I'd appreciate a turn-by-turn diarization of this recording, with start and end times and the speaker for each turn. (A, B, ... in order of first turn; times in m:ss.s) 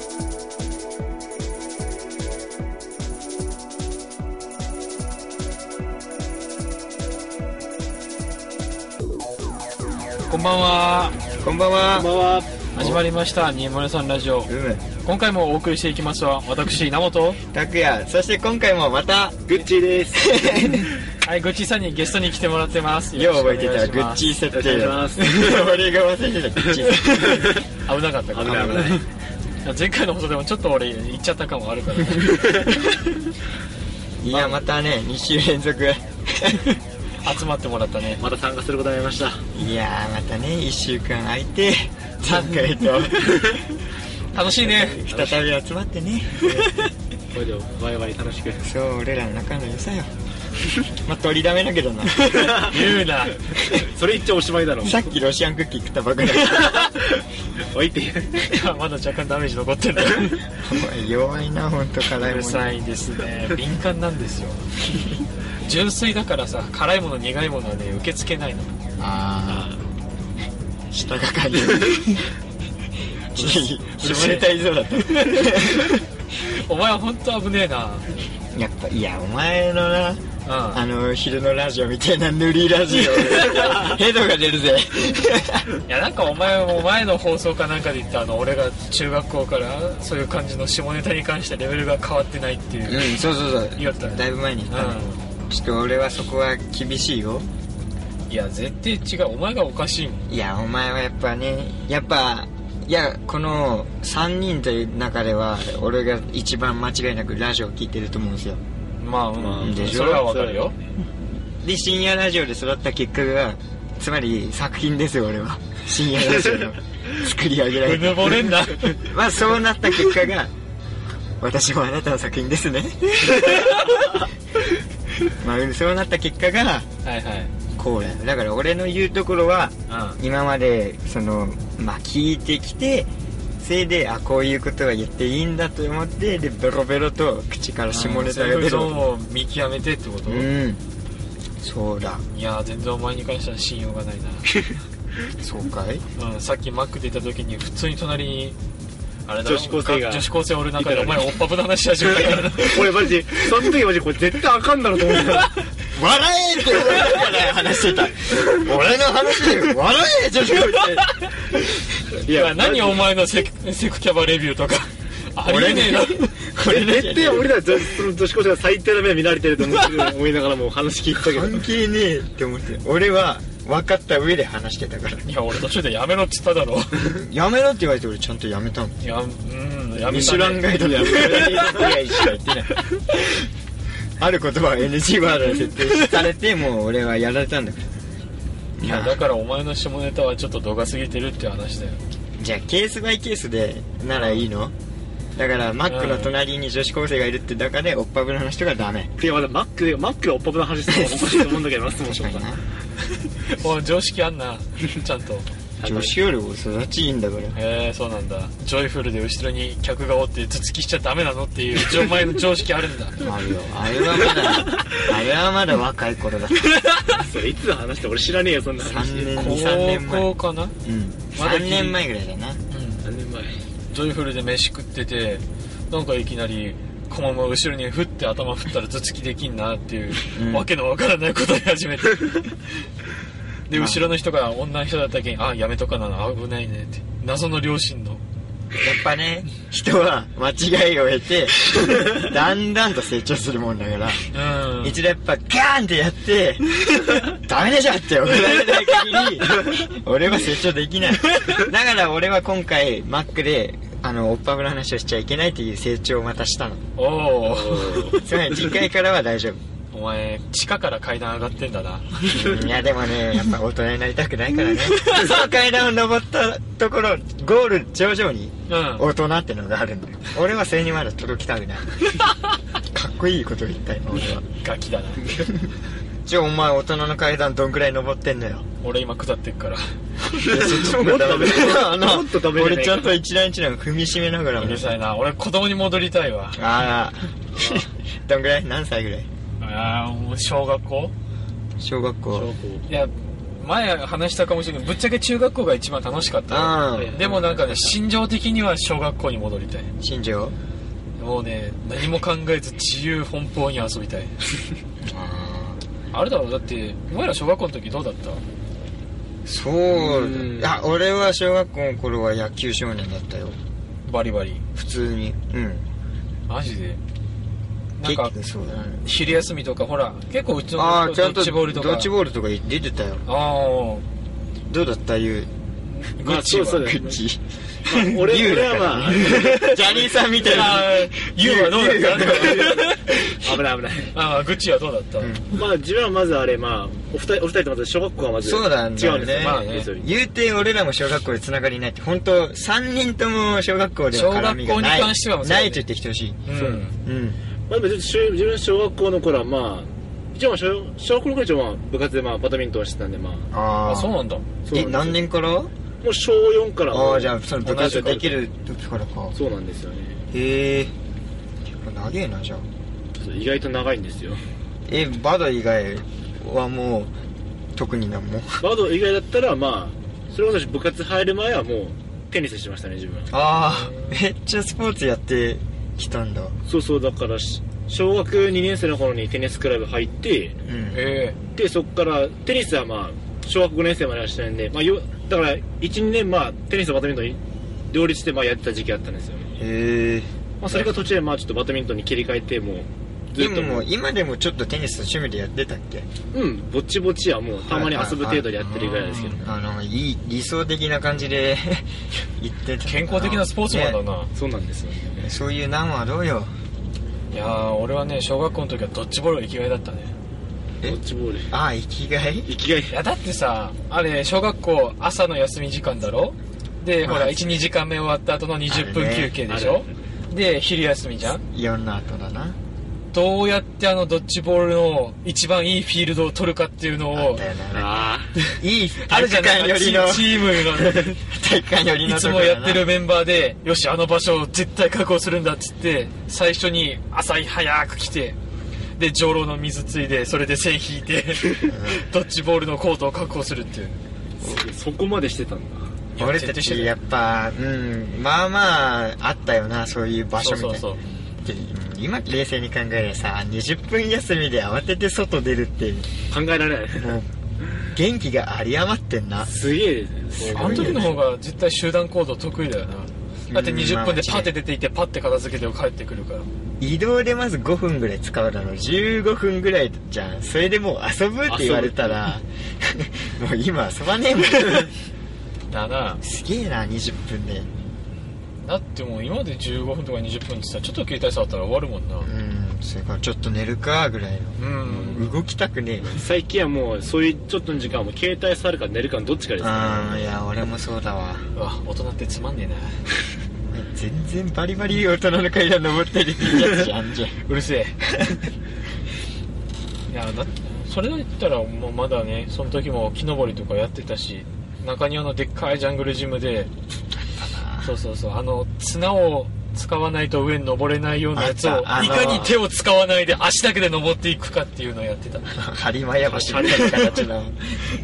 0:10.3-0:11.2 A
0:11.4-0:12.1 B
0:11.9-0:12.7 C
0:12.7-0:14.5 A
0:14.4-0:14.8 B
0:15.0-0:17.4 A
0:17.5-0:19.4 B
0:19.5-0:21.0 C
0:20.1-0:20.9 B
0:21.2-0:24.3 A
0:23.1-0:27.5 B
0:24.5-0:25.6 C
0:27.3-0:27.6 C
0:27.8-0:29.0 A
0:28.3-0:29.0 C
0:28.4-0:29.0 B
0:29.6-0:32.6 A
0:34.2-0:36.7 B
0:37.2-0:38.2 A
0:38.2-0:39.4 C
0:39.5-0:43.4 B
0:44.3-0:45.1 A
0:44.4-0:46.5 B
0:45.1-0:45.4 C
0:47.3-0:48.6 C
0:48.6-0:50.1 B
0:51.0-0:52.3 B
0:52.2-0:53.4 A
0:52.3-0:53.0 C
0:53.6-0:55.0 C
0:54.8-0:56.8 B
0:56.7-0:58.5 C
0:58.4-1:00.4 A
1:00.6-1:02.7 B
1:02.2-1:04.6 A
1:05.6-1:08.7 A
1:09.0-1:09.8 B
1:09.5-1:09.8 C
1:10.9-1:12.3 B
1:13.3-1:16.0 B
1:13.4-1:18.0 A
1:18.5-1:25.7 B
1:20.4-1:20.8 A
1:22.9-1:23.9 A
1:25.8-1:33.1 A
1:32.8-1:37.5 B
1:33.7-1:35.2 A
1:38.3-1:40.2 A
1:40.3-1:48.6 B
1:49.0-1:50.7 A
1:49.4-1:50.8 C
1:49.6-1:50.4 B
1:51.6-2:00.5 B
1:57.8-1:59.1 A
2:01.4-2:03.8 B
2:03.3-2:03.9 A
2:05.2-2:06.9 B
2:07.0-2:07.5 A
2:07.7-2:19.0 B
2:09.9-2:10.2 A
2:17.9-2:20.5 A
2:20.2-2:20.8 B
2:21.6-2:22.2 B
2:22.3-2:24.6 A
2:25.4-2:26.0 B
2:26.2-2:28.6 A
2:29.2-2:32.9 A
2:29.4-2:31.4 C
2:32.0-2:35.5 C
2:35.9-2:41.1 B
2:41.0-2:41.3 A
2:42.2-2:43.1 C
2:42.3-2:46.3 A
2:45.4-2:47.6 B
2:46.6-2:51.6 C
2:51.2-2:55.2 B
2:55.2-2:57.1 A
2:57.0-2:59.0 B
2:59.0-3:01.5 A
3:00.0-3:02.2 C
3:00.1-3:02.8 B
3:04.2-3:07.9 B
3:08.8-3:09.2 B
3:08.8-3:12.0 A
3:12.4-3:14.7 B
3:15.3-3:19.1 B
3:15.8-3:16.3 A
3:19.2-3:22.5 C
3:20.9-3:22.6 B
3:23.3-3:25.5 A
3:25.8-3:26.1 C
3:25.8-3:27.6 B
3:27.5-3:33.2 A
3:33.2-3:36.7 B
3:37.1-3:39.4 C
3:38.8-3:42.6 B
3:39.3-3:40.8 A
3:41.3-3:42.0 A
3:42.7-3:43.0 A
3:43.0-3:43.6 C
3:43.9-3:52.6 A
3:50.3-3:50.7 B
3:53.7-3:58.2 A
3:53.7-3:54.1 B
3:58.8-4:16.8 B
4:04.3-4:05.0 A
4:17.0-4:18.2 A
4:17.4-4:18.2 C
4:18.1-4:19.6 B
4:19.9-4:22.5 A
4:22.3-4:32.0 B
4:28.7-4:29.1 A
4:32.9-4:34.4 B
4:34.5-4:35.3 A
4:36.2-4:38.6 B
4:38.8-4:40.0 A
4:40.3-4:44.9 B
4:40.4-4:43.2 C
4:44.6-4:46.6 A
4:46.5-4:49.3 B
4:47.6-4:47.8 C
4:49.6-4:51.1 A
4:51.8-4:52.5 B
4:52.3-4:52.8 C
4:52.9-4:59.9 A
4:56.5-4:57.3 B
4:57.0-4:57.9 C
5:00.0-5:00.6 B
5:01.2-5:04.3 A
5:05.0-5:05.8 B
5:06.1-5:08.4 A
5:09.4-5:13.6 B
5:09.9-5:10.8 C
5:14.0-5:14.6 A
5:14.7-5:15.8 B
5:16.5-5:17.0 A
5:18.0-5:18.3 A
5:18.0-5:19.0 B
5:19.0-5:22.1 A
5:20.7-5:23.2 B
5:23.2-5:24.0 A
5:24.7-5:25.5 B
5:26.0-5:26.6 A
5:26.2-5:27.2 C
5:26.2-5:27.4 B
5:27.8-5:30.1 C
5:27.9-5:33.1 B
5:30.4-5:33.2 A
5:33.3-5:34.1 C
5:34.1-5:35.4 A
5:35.2-5:35.6 B
5:35.5-5:40.1 C
5:38.4-5:46.4 B
5:39.4-5:39.9 A
5:44.1-5:45.8 A
5:46.4-5:46.9 A
5:46.5-5:46.9 C
5:47.0-5:47.4 B
5:47.7-5:53.5 C
5:53.5-5:55.7 B
5:53.8-5:54.4 A
5:54.6-5:55.2 C
5:56.0-5:58.4 C
5:56.9-5:59.3 B
5:59.3-6:00.2 C
6:00.3-6:00.9 B
6:01.7-6:02.7 B
6:03.2-6:04.4 C
6:04.9-6:07.1 B
6:07.7-6:08.7 B
6:08.6-6:13.3 C
6:13.3-6:16.6 B
6:13.7-6:14.2 A
6:16.6-6:20.5 C
6:20.6-6:21.0 B
6:20.9-6:21.4 A
6:21.5-6:27.4 C
6:27.9-6:29.6 C
6:29.6-6:30.9 B
6:30.6-6:33.9 C
6:33.4-6:36.1 B
6:36.3-6:39.5 C
6:37.6-6:44.0 B
6:42.8-6:44.3 A
6:44.3-6:45.3 C
6:45.2-6:46.5 B
6:47.3-6:50.1 A
6:50.8-6:51.5 C
6:51.5-6:52.5 B
6:52.4-6:53.0 C
6:52.9-7:01.4 A
6:57.0-6:57.6 B
6:58.7-6:59.4 B
6:59.5-6:59.9 C
7:01.3-7:02.6 B
7:03.1-7:07.4 A
7:07.1-7:07.9 B
7:07.7-7:08.3 C
7:08.6-7:12.9 B
7:09.0-7:11.2 A
7:12.0-7:18.4 A
7:19.0-7:24.0 A
7:21.6-7:22.0 B
7:24.4-7:25.9 C
7:26.2-7:26.9 A
7:26.2-7:36.1 B
7:30.4-7:31.0 A
7:36.3-7:37.2 C
7:37.0-7:37.3 B
7:37.9-7:39.5 B
7:39.4-7:41.2 C
7:40.4-7:41.2 B
7:40.5-7:46.5 A
7:43.5-7:44.5 B
7:46.8-7:54.9 B
7:51.5-7:52.4 C
7:55.7-7:56.2 A
7:56.2-7:57.7 B
7:58.6-8:02.3 A
8:02.2-8:06.2 B
8:04.6-8:05.3 A
8:04.9-8:05.2 C
8:06.0-8:10.4 C
8:09.6-8:11.5 B
8:11.5-8:13.0 A
8:13.7-8:17.4 B
8:17.4-8:18.0 A
8:20.1-8:26.7 A
8:27.3-8:27.9 B
8:27.8-8:35.5 A
8:31.3-8:32.6 B
8:32.0-8:32.6 C
8:35.5-8:37.8 B
8:36.2-8:37.2 C
8:36.7-8:37.2 A